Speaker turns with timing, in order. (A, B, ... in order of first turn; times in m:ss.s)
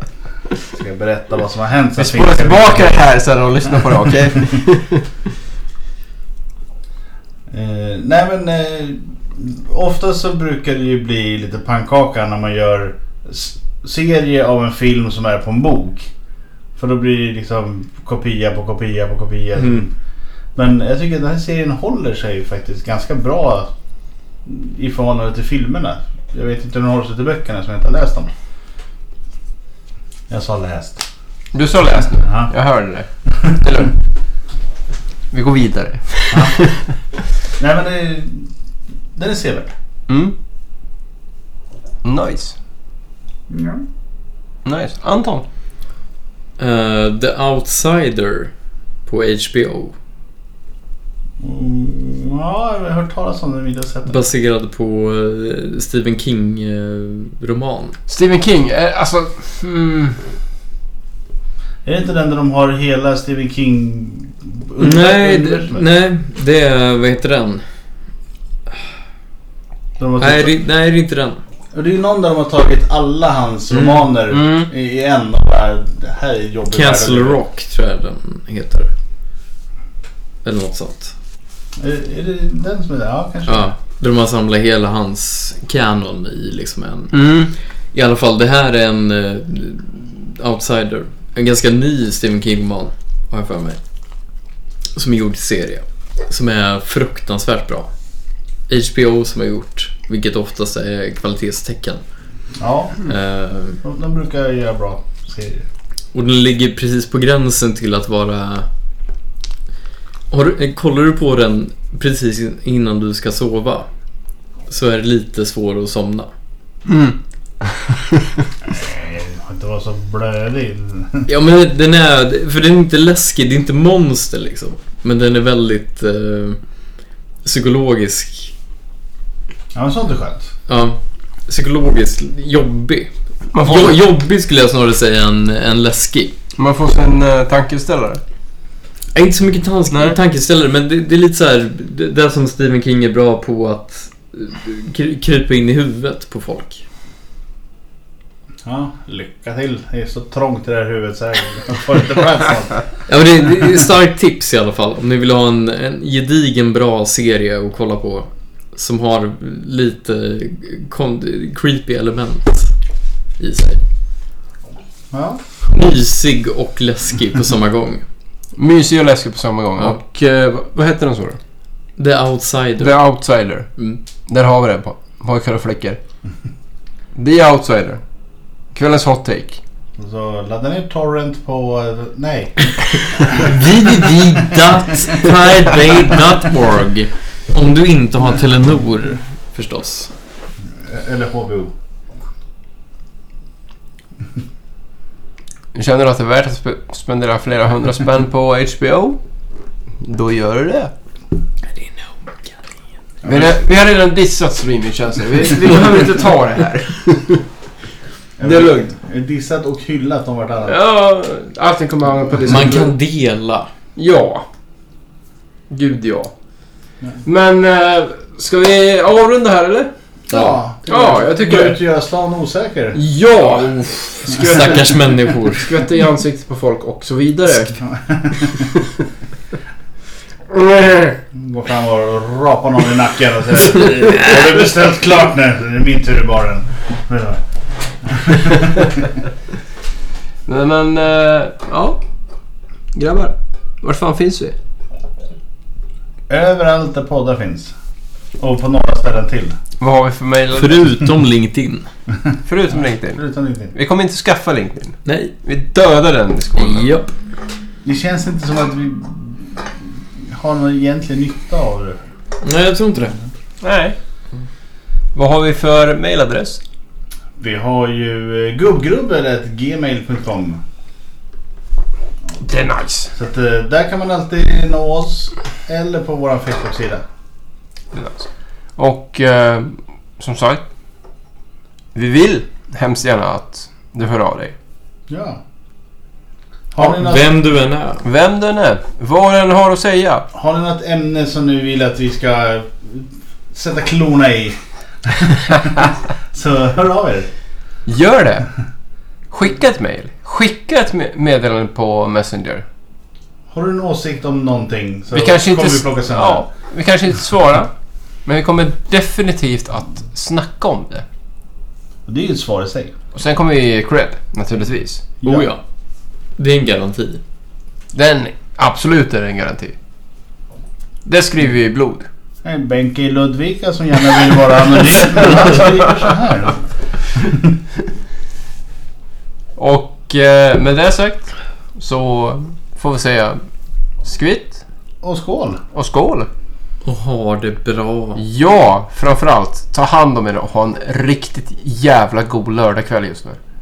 0:00.6-0:03.0 A
0:02.0-0:05.1 B
0:07.5-0:16.1 A
0:16.8-0:19.9 A
0:19.6-0:19.8 C
0:20.6-0:23.7 A
0:24.4-0:28.3 A
0:30.3-0:31.0 A
0:31.5-0:33.9 B
0:32.2-0:32.5 A
0:35.3-0:36.9 B
0:36.3-0:36.6 A
0:37.6-0:38.5 A
0:39.1-0:39.7 A
0:40.1-0:40.3 B
0:42.0-0:42.5 B
0:43.5-0:43.8 A
0:44.6-0:45.4 B
0:46.6-0:48.5 C
0:49.0-0:49.9 C
0:51.4-0:54.2 A
0:54.0-0:58.0 C
0:58.1-1:00.2 B
1:01.8-1:05.8 A
1:04.8-1:07.6 C
1:10.0-1:10.6 A
1:10.2-1:11.4 C
1:11.7-1:17.4 A
1:13.7-1:14.1 C
1:14.3-1:14.7 B
1:16.7-1:18.9 C
1:20.4-1:21.1 C
1:21.8-1:23.7 A
1:23.5-1:33.8 C
1:27.1-1:27.5 B
1:35.0-1:37.9 C
1:38.7-1:42.0 C
1:42.6-1:43.1 A
1:43.0-1:43.8 C
1:43.8-1:45.6 A
1:46.1-1:48.7 C
1:50.3-1:53.9 C
1:54.7-1:56.3 C
1:56.8-1:57.2 B
1:57.9-1:58.2 B
1:58.6-2:01.3 A
2:01.3-2:06.6 C
2:07.4-2:08.5 C
2:09.7-2:10.5 A
2:10.7-2:16.3 C
2:13.5-2:14.0 B
2:16.6-2:18.2 B
2:19.1-2:26.8 C
2:28.6-2:32.8 A
2:33.1-2:42.7 C
2:43.4-2:43.8 C
2:45.1-2:45.4 A
2:45.7-2:48.0 C
2:48.6-2:51.4 B
2:52.0-2:53.0 C
2:52.8-2:53.7 B
2:54.3-2:56.0 B
2:57.2-2:58.0 B
2:58.7-2:59.6 B
3:00.0-3:03.5 A
3:03.3-3:10.1 C
3:10.8-3:11.7 A
3:15.7-3:19.2 B
3:20.0-3:20.9 B
3:21.7-3:22.5 C
3:23.2-3:23.5 A
3:23.2-3:27.4 B
3:28.4-3:30.8 A
3:28.4-3:28.9 B
3:30.6-3:32.9 B
3:32.4-3:33.7 C
3:34.0-3:34.4 B
3:35.7-3:36.3 B
3:37.2-3:39.9 B
3:40.3-3:43.0 A
3:40.3-3:40.6 C
3:40.9-3:41.8 B
3:42.9-3:47.8 B
3:43.4-3:45.8 C
3:47.8-3:48.7 A
3:48.3-3:48.9 B
3:50.5-3:51.2 B
3:51.3-3:57.4 A
3:58.0-3:59.1 A
4:00.4-4:02.0 B
4:02.9-4:04.5 B
4:06.3-4:07.7 A
4:08.4-4:09.6 A
4:09.8-4:10.9 B
4:10.6-4:11.9 C
4:12.4-4:13.2 B
4:12.7-4:13.7 A
4:13.7-4:16.9 B
4:15.0-4:15.3 C
4:16.5-4:17.1 C
4:17.8-4:22.0 A
4:22.4-4:23.2 C
4:23.6-4:24.0 B
4:25.1-4:26.6 B
4:27.4-4:30.6 A
4:32.4-4:33.1 B
4:33.1-4:37.0 A
4:37.9-4:38.2 B
4:38.8-4:40.6 B
4:41.9-4:44.5 B
4:45.1-4:45.4 A
4:46.7-4:47.4 A
4:46.8-4:48.0 C
4:48.0-4:50.2 B
4:50.3-4:57.3 A
4:57.9-4:58.5 B
4:59.3-5:02.6 B
5:03.5-5:06.4 A
5:05.1-5:07.7 B
5:08.2-5:11.0 B
5:12.1-5:12.9 A
5:13.1-5:15.0 B
5:15.2-5:15.5 A
5:15.2-5:15.6 C
5:16.4-5:17.2 C
5:17.9-5:19.7 B
5:21.0-5:22.1 B
5:22.4-5:27.5 A
5:29.6-5:33.4 B
5:34.0-5:34.6 B
5:35.0-5:35.6 A
5:35.7-5:36.3 B
5:36.8-5:38.2 C
5:38.2-5:43.4 B